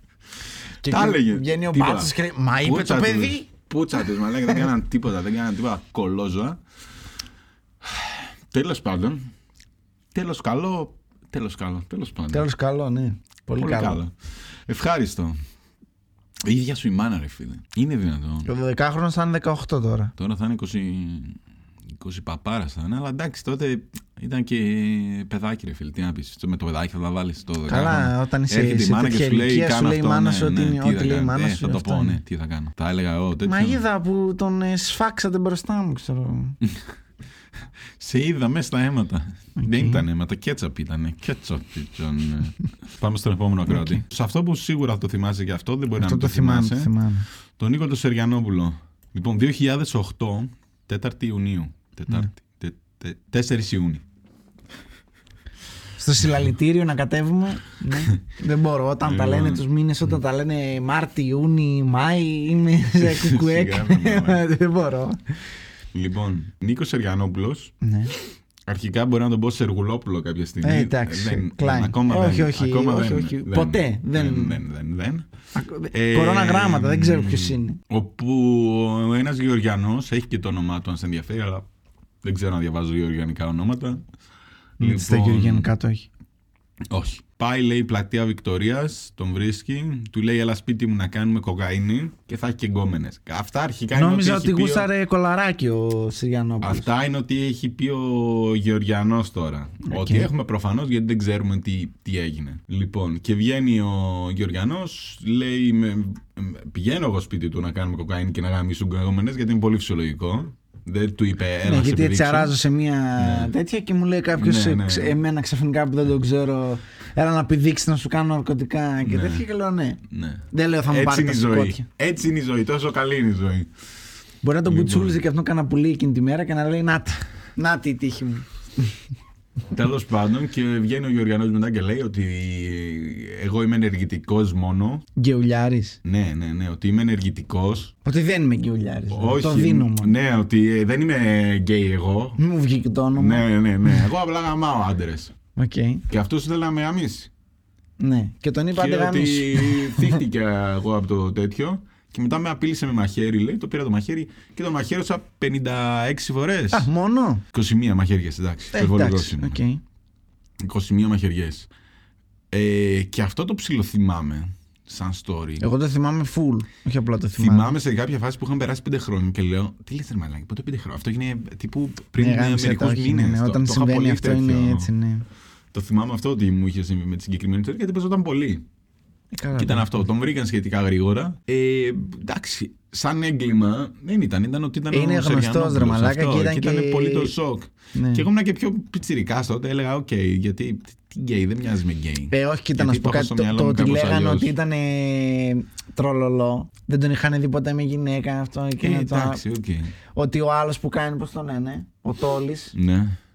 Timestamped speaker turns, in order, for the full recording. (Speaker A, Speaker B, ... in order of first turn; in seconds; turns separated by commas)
Speaker A: 0.8-3.5, Speaker B: 0.8-2.1, Speaker B: 2.6-6.6, Speaker B: 7.8-9.3, Speaker B: 10.1-12.5, Speaker A: 12.3-14.0, Speaker B: 13.6-14.1, Speaker B: 14.7-15.3, Speaker B: 16.4-18.5, Speaker A: 18.4-20.1, Speaker B: 20.2-21.4, Speaker B: 22.0-33.8, Speaker A: 27.7-32.2, Speaker A: 33.4-36.6, Speaker B: 38.0-46.9, Speaker A: 39.6-40.0, Speaker A: 43.7-44.0, Speaker A: 46.0-47.2, Speaker B: 47.6-54.0, Speaker A: 56.0-65.2, Speaker B: 59.0-59.6, Speaker B: 63.0-64.4, Speaker B: 65.9-67.7, Speaker A: 67.8-68.1, Speaker B: 68.7-75.2, Speaker A: 70.6-74.6, Speaker A: 75.5-77.8, Speaker B: 75.9-81.7, Speaker B: 82.2-84.0, Speaker B: 84.8-85.7, Speaker A: 84.8-86.1, Speaker B: 86.9-94.9, Speaker A: 93.9-96.9, Speaker B: 96.6-112.5, Speaker A: 99.9-100.3, Speaker A: 111.6-120.0, Speaker B: 113.2-113.5, Speaker B: 114.3-115.2, Speaker B: 119.0-119.4, Speaker B: 120.1-123.7, Speaker A: 120.5-121.8, Speaker A: 124.4-128.9, Speaker B: 124.6-125.2, Speaker B: 129.7-135.1, Speaker A: 135.2-136.0, Speaker B: 136.0-137.9, Speaker A: 138.0-140.1, Speaker B: 139.1-142.4, Speaker A: 142.4-144.0, Speaker B: 143.2-145.3, Speaker A: 145.6-146.0, Speaker B: 146.1-147.3, Speaker A: 148.0-150.2, Speaker B: 148.7-156.9, Speaker A: 156.7-157.4, Speaker B: 157.5-159.6, Speaker A: 158.7-159.8, Speaker B: 160.6-161.7, Speaker B: 162.5-165.6, Speaker A: 165.6-167.7, Speaker B: 167.3-174.9, Speaker A: 172.2-175.2, Speaker B: 175.7-178.6, Speaker A: 179.3-180.0, Speaker B: 179.5-194.5, Speaker A: 184.9-187.3, Speaker A: 187.9-188.2, Speaker A: 192.3-199.4, Speaker B: 198.8-199.9, Speaker A: 200.1-202.7, Speaker B: 202.7-203.1